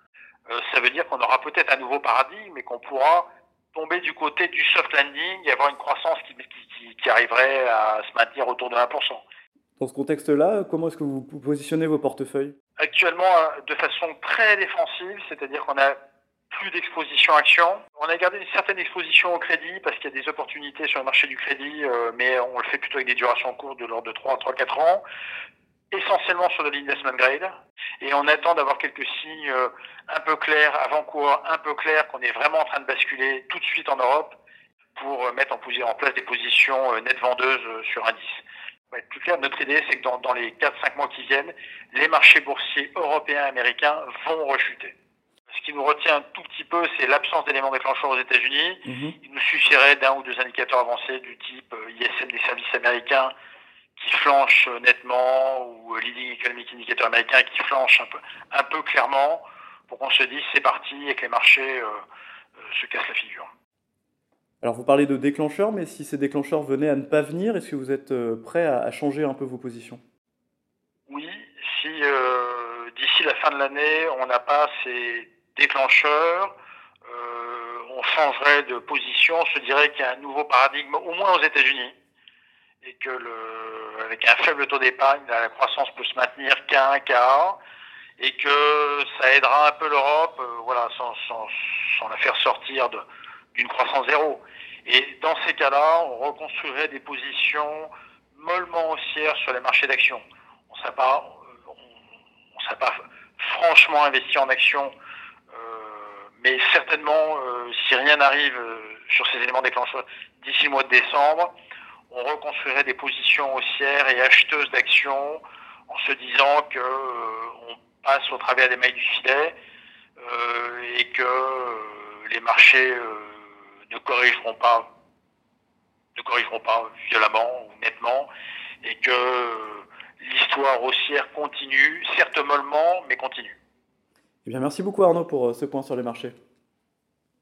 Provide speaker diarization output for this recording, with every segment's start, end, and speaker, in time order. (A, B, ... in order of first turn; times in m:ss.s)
0:00.5-0:09.2 A
0:09.8-0:12.6 B
0:12.8-0:16.0 A
0:16.5-0:25.0 A
0:25.9-0:34.4 A
0:35.0-0:45.0 A
0:45.5-0:53.3 A
0:48.9-0:49.2 B
0:54.0-1:02.0 A
1:02.6-1:03.5 A
1:04.6-1:10.0 B
1:11.1-1:16.5 A
1:17.1-1:22.0 A
1:22.8-1:27.6 A
1:28.2-1:33.0 A
1:33.6-1:41.8 A
1:42.6-1:44.9 A
1:45.5-1:51.5 A
1:52.1-1:59.6 A
2:00.2-2:04.8 A
2:06.2-2:08.3 A
2:08.8-2:13.6 A
2:14.4-2:16.3 B